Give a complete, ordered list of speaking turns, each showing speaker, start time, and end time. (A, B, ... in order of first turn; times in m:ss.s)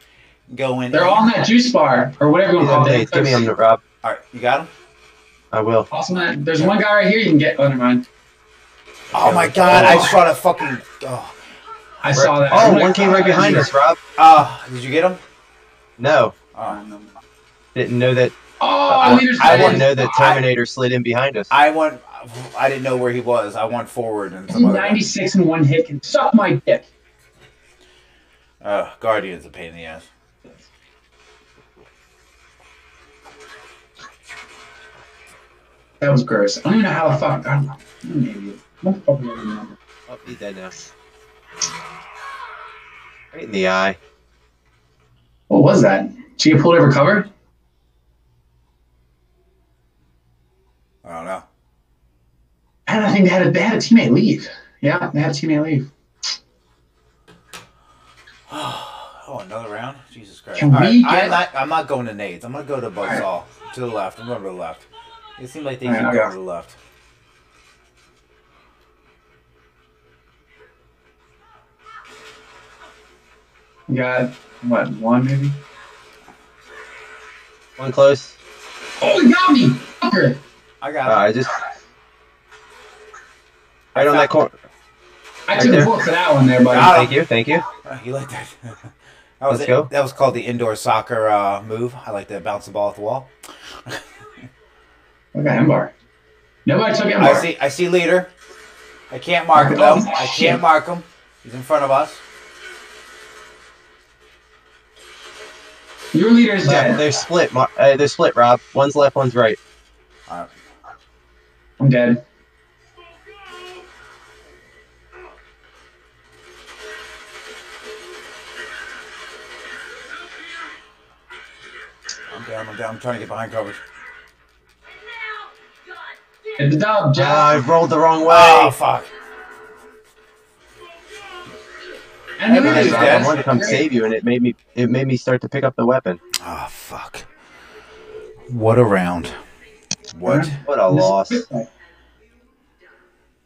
0:00.5-0:01.3 A
0:00.9-0:03.5 B
0:02.6-0:03.8 C
0:04.0-0:04.7 A
0:05.5-0:05.9 C
0:05.9-0:08.1 B
0:09.1-0:11.4 A
0:09.1-0:10.2 C
0:09.6-0:10.2 B
0:12.0-0:13.7 B
0:12.2-0:14.0 C
0:14.2-0:15.2 A
0:16.0-0:16.4 C
0:16.7-0:17.1 B
0:17.8-0:18.4 C
0:18.6-0:20.2 B
0:18.9-0:21.5 C
0:19.0-0:20.4 A
0:21.5-0:25.0 A
0:24.5-0:26.9 B
0:28.6-0:30.1 A
0:36.0-0:39.8 B
0:40.1-0:40.7 C
0:43.3-0:44.0 C
0:45.5-0:47.3 B
0:51.0-0:51.5 A
0:52.9-0:55.9 B
0:58.5-1:04.8 A
1:00.6-1:01.4 B
1:05.4-1:06.8 A
1:05.8-1:06.3 B
1:13.9-1:15.6 B
1:17.8-1:18.4 C
1:19.0-1:20.4 B
1:20.8-1:21.3 A
1:21.1-1:21.5 C
1:24.0-1:24.3 A
1:24.0-1:24.5 C
1:25.5-1:27.0 B
1:25.6-1:25.9 C
1:26.7-1:27.2 A
1:26.8-1:27.6 C
1:27.8-1:28.9 A
1:29.4-1:33.3 A
1:29.5-1:29.9 C
1:35.3-1:35.9 B
1:36.6-1:37.5 B
1:37.2-1:38.3 A
1:39.1-1:42.2 A
1:39.6-1:40.6 B
1:46.1-1:47.1 B
1:46.6-1:49.6 C
1:51.8-1:52.2 B
2:02.3-2:03.8 A
2:06.6-2:07.7 B
2:07.2-2:08.8 C
2:08.2-2:09.1 A
2:12.4-2:13.9 B
2:12.5-2:13.7 A
2:12.5-2:16.2 C
2:16.4-2:17.3 A
2:18.5-2:19.4 A
2:20.1-2:20.6 A
2:20.2-2:21.7 B
2:20.6-2:21.4 C